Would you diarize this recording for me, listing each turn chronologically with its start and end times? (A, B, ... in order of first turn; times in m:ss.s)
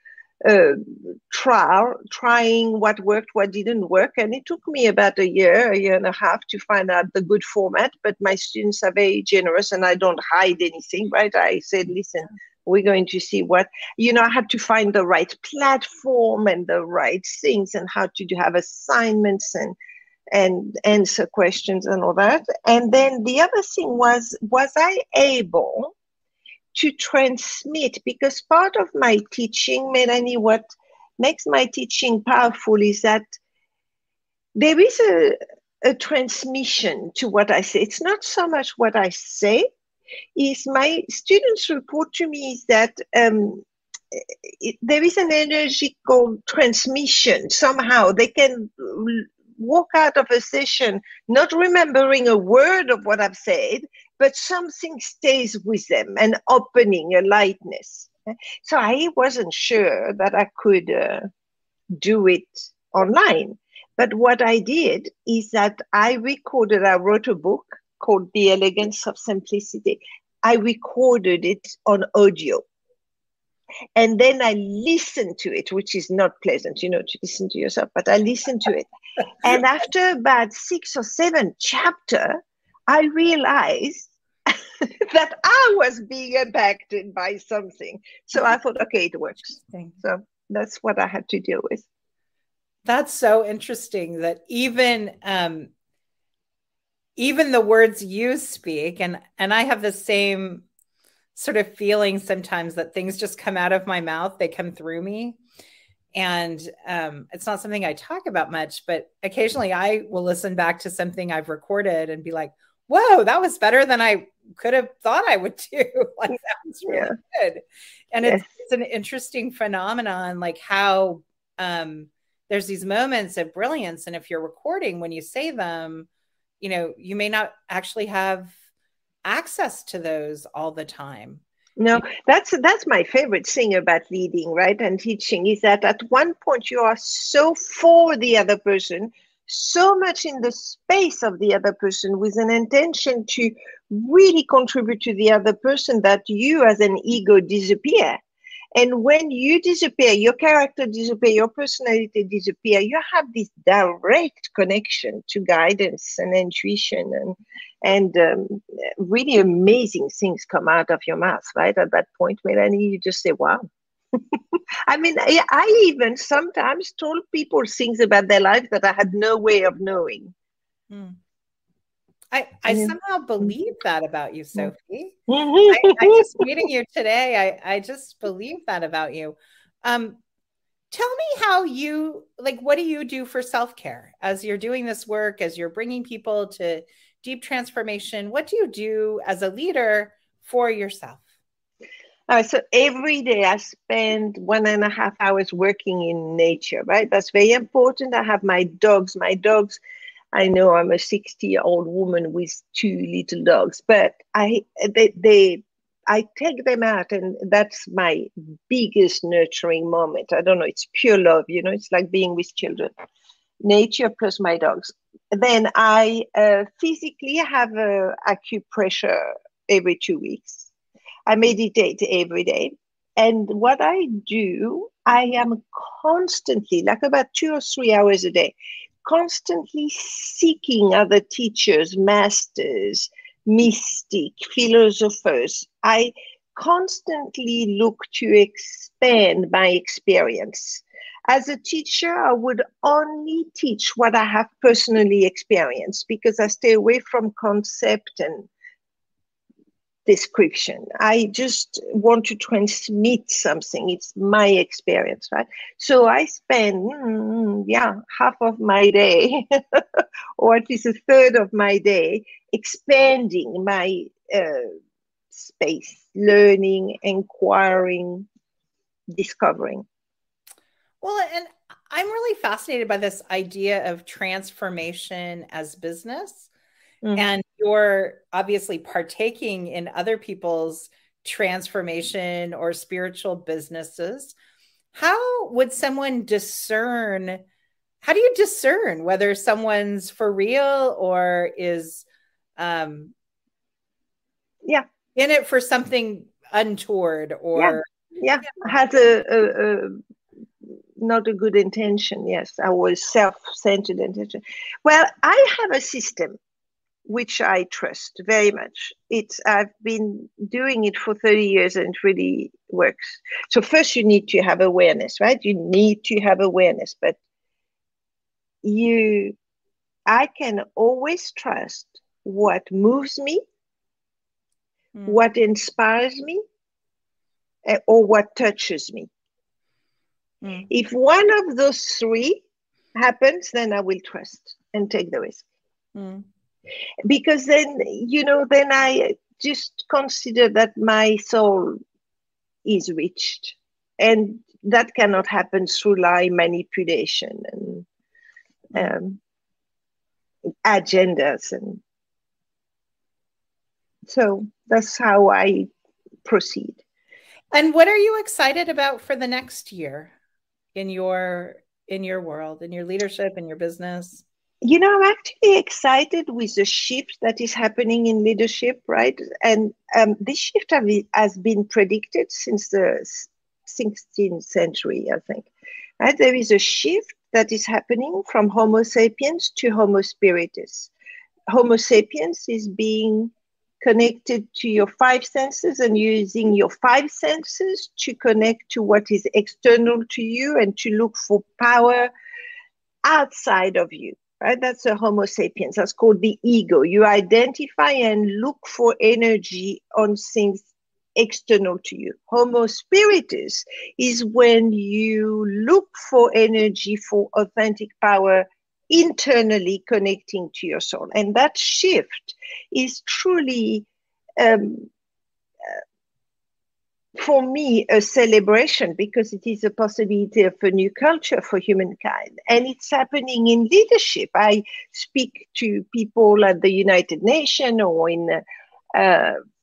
0:00.4-0:19.7 A
0:20.3-0:25.9 A
0:26.7-0:30.6 A
0:31.2-0:33.3 A
0:34.6-0:39.7 A
0:40.4-0:58.1 A
0:58.6-1:01.3 A
1:02.0-1:12.6 A
1:13.9-1:18.9 A
1:19.4-1:22.4 A
1:22.9-1:31.9 A
1:29.5-1:30.0 B
1:32.8-1:35.7 B
1:37.2-1:40.6 B
1:41.3-1:45.4 B
1:46.1-2:06.1 B
2:06.6-2:08.5 B
2:09.2-2:11.4 B
2:11.8-2:28.2 A
2:28.7-2:50.3 A
2:50.9-2:51.2 B
2:52.3-3:00.2 B
2:52.7-2:52.9 A
2:55.3-2:56.3 A
3:00.9-3:11.2 B
3:12.3-3:19.8 A
3:20.3-3:32.9 A
3:33.6-3:40.7 A
3:41.3-4:08.5 A
4:10.0-4:24.7 A
4:25.3-4:28.3 A
4:29.1-4:29.8 A
4:31.0-4:36.5 B
4:37.1-4:44.3 B
4:44.9-4:47.4 B
4:48.0-4:52.0 B
4:52.6-4:53.1 B
4:55.1-4:57.8 B
4:57.5-5:00.0 A
5:01.0-5:06.4 A
5:07.0-5:17.2 A
5:18.6-5:19.4 A
5:20.1-5:23.4 A
5:24.9-5:25.2 B
5:25.1-5:26.4 A
5:27.6-5:29.1 A
5:30.4-5:30.7 B
5:30.7-5:32.4 A
5:33.0-5:35.4 A
5:35.9-5:36.2 B
5:37.1-5:41.8 A
5:42.6-5:47.8 A
5:48.7-5:49.2 A
5:50.6-5:51.8 A
5:54.0-5:55.7 A
5:56.2-5:56.8 A
5:57.5-6:00.1 B
6:00.7-6:04.2 B
6:04.6-6:20.9 A
6:21.5-6:32.1 A
6:33.0-6:53.9 A
6:54.4-6:54.9 A
6:57.2-7:08.4 A
7:09.0-7:09.4 A